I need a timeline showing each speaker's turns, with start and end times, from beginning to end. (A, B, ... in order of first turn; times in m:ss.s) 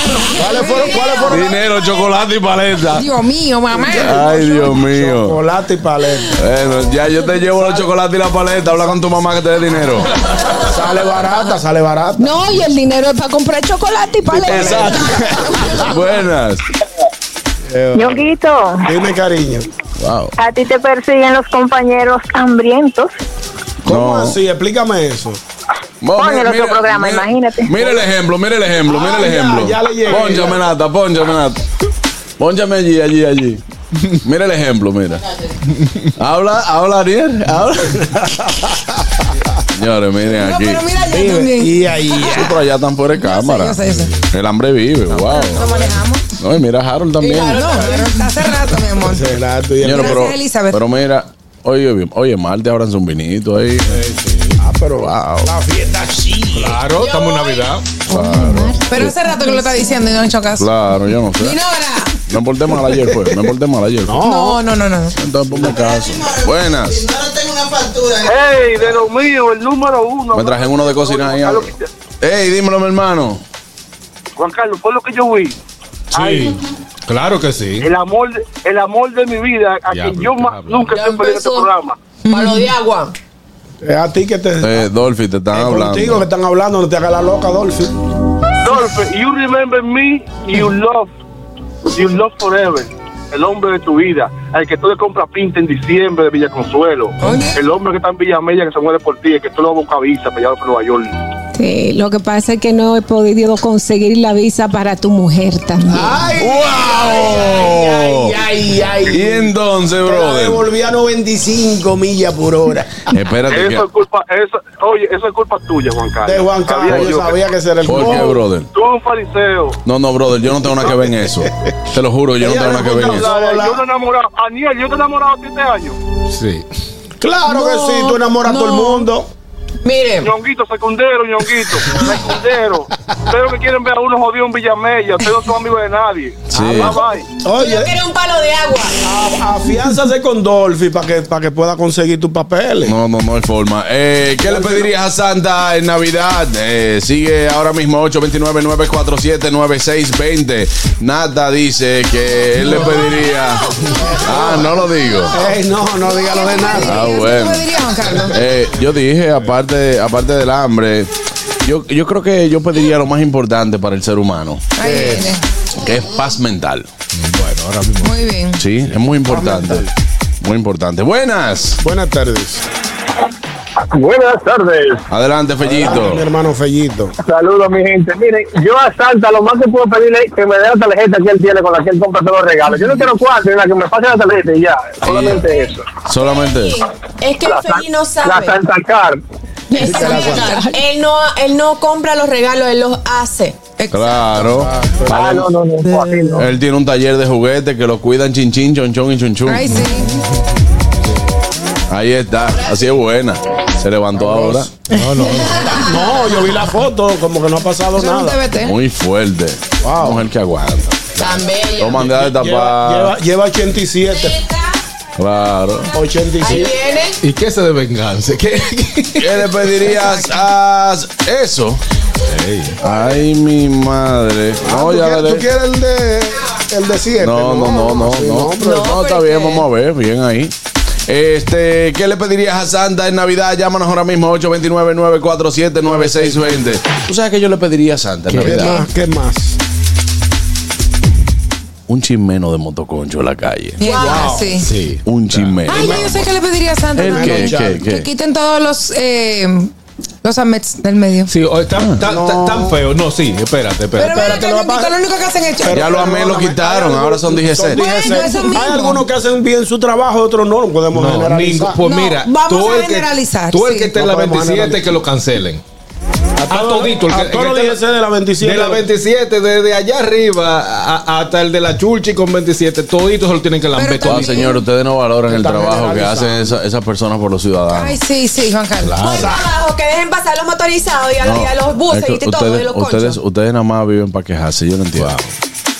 0:00.3-0:01.6 A
0:00.5-0:01.3 B
0:01.3-0:03.0 C
0:02.9-0:04.7 B
0:03.9-0:06.4 A
0:04.0-0:05.4 C
0:06.4-0:10.1 C
0:10.6-0:12.3 A
0:12.2-0:15.0 D
0:14.3-0:15.8 A
0:14.4-0:16.6 C
0:17.7-0:18.3 A
0:17.9-0:18.9 E
0:18.8-0:19.7 A
0:20.0-0:20.3 C
0:20.4-0:23.1 E
0:23.8-0:25.4 A
0:23.9-0:24.4 C
0:26.0-0:31.6 C
0:26.2-0:27.9 E
0:28.9-0:30.6 A
0:32.4-0:33.6 C
0:34.2-0:35.2 C
0:36.2-0:38.0 C
0:38.0-0:39.4 A
0:39.8-0:40.8 C
0:40.4-0:41.7 B
0:41.1-0:42.6 A
0:42.3-0:45.8 C
0:43.2-0:44.1 B
0:45.1-0:46.2 B
0:46.4-0:47.8 C
0:47.2-0:48.2 F
0:47.4-0:49.2 B
0:49.0-0:50.3 A
0:49.8-0:54.0 C
0:49.9-0:50.8 B
0:53.9-0:54.6 G
0:54.6-0:56.8 A
0:55.0-0:55.5 C
0:56.5-0:57.8 G
0:57.0-0:57.7 F
0:58.1-1:00.0 D
0:58.1-0:59.1 C
0:58.9-1:00.7 B
1:00.6-1:01.6 C
1:01.4-1:02.1 B
1:02.3-1:04.2 C
1:04.0-1:04.6 A
1:04.2-1:05.2 B
1:05.2-1:07.1 C
1:08.2-1:11.9 H
1:10.3-1:13.4 C
1:14.4-1:15.6 H
1:16.1-1:16.6 H
1:16.1-1:17.9 G
1:17.8-1:22.0 H
1:19.9-1:21.0 G
1:20.9-1:21.7 F
1:22.2-1:22.6 B
1:22.3-1:23.1 F
1:23.8-1:24.9 A
1:24.6-1:26.2 C
1:25.5-1:27.9 A
1:28.6-1:31.1 H
1:31.9-1:41.2 H
1:41.5-1:46.1 D
1:45.9-1:49.5 A
1:46.4-1:48.3 C
1:49.1-1:50.6 C
1:50.0-1:53.0 A
1:53.1-1:53.9 C
1:53.5-1:59.8 H
1:56.2-1:58.4 A
1:56.8-1:57.2 C
1:57.8-1:58.7 C
1:59.8-2:03.3 C
2:00.7-2:01.5 A
2:02.4-2:03.8 A
2:02.9-2:06.0 H
2:06.3-2:06.6 G
2:07.2-2:09.3 A
2:07.5-2:08.0 B
2:08.5-2:09.0 B
2:09.8-2:10.3 F
2:10.2-2:17.3 H
2:16.5-2:17.0 C
2:17.4-2:18.0 A
2:17.6-2:19.0 F
2:19.0-2:22.9 A
2:22.8-2:33.6 C
2:24.4-2:24.9 A
2:34.0-2:37.1 A
2:34.2-2:35.4 C
2:36.3-2:38.4 B
2:36.8-2:37.7 C
2:38.3-2:41.1 C
2:41.6-2:44.7 C
2:44.8-2:45.4 B
2:44.8-2:45.3 A
2:45.8-2:46.9 C
2:47.1-2:48.2 G
2:48.0-2:48.6 B
2:48.6-2:49.9 C
2:49.3-2:49.9 A
2:50.4-2:51.8 C
2:51.8-2:52.6 A
2:53.9-2:54.9 I
2:55.1-2:56.2 C
2:55.6-2:57.1 A
3:02.6-3:03.2 I
3:04.8-3:05.6 I
3:05.0-3:05.5 C
3:06.0-3:06.8 C
3:07.2-3:08.6 F
3:08.2-3:08.8 I
3:09.7-3:10.8 D
3:09.8-3:10.6 A
3:09.8-3:13.6 F
3:13.8-3:14.2 B
3:13.9-3:15.5 C
3:14.4-3:15.3 A
3:15.2-3:15.7 I
3:16.3-3:19.8 C
3:19.4-3:20.1 B
3:21.9-3:24.7 C
3:24.1-3:24.7 A
3:24.9-3:25.7 G
3:25.5-3:28.4 A
3:28.0-3:28.7 B
3:28.6-3:31.2 C
3:29.8-3:30.2 A
3:31.2-3:32.1 F
3:31.8-3:33.1 C
3:32.0-3:34.4 A
3:35.2-3:35.9 C
3:35.9-3:36.8 A
3:36.4-3:37.2 F
3:37.2-3:39.3 G
3:39.2-3:41.8 C
3:42.3-3:42.8 G
3:42.8-3:45.4 C
3:44.6-3:48.9 A
3:47.2-3:50.5 C
3:48.6-3:49.6 F
3:51.1-3:58.8 C
3:55.8-3:56.7 A
3:58.3-3:59.6 A
4:01.9-4:04.1 C
4:03.8-4:04.7 B
4:03.8-4:04.4 F
4:03.9-4:04.5 A
4:04.6-4:05.6 G
4:05.0-4:06.1 C
4:05.7-4:09.7 B
4:05.7-4:06.1 A
4:07.0-4:08.1 C
4:07.0-4:07.8 A
4:10.2-4:11.3 B
4:11.3-4:14.4 G
4:11.8-4:12.1 C
4:12.0-4:12.7 A
4:14.0-4:16.1 B
4:14.0-4:14.9 A
4:15.6-4:21.8 A
4:15.7-4:17.8 C
4:17.7-4:19.0 B
4:20.9-4:25.6 G
4:21.8-4:23.9 B
4:24.0-4:24.9 A
4:26.4-4:27.8 G
4:26.5-4:28.8 A
4:28.4-4:34.4 G
4:33.8-4:34.6 B
4:34.0-4:38.0 C
4:35.3-4:36.6 A
4:37.7-4:39.2 B
4:38.9-4:39.3 G
4:39.1-4:43.2 F
4:41.2-4:45.2 C
4:45.0-4:45.3 G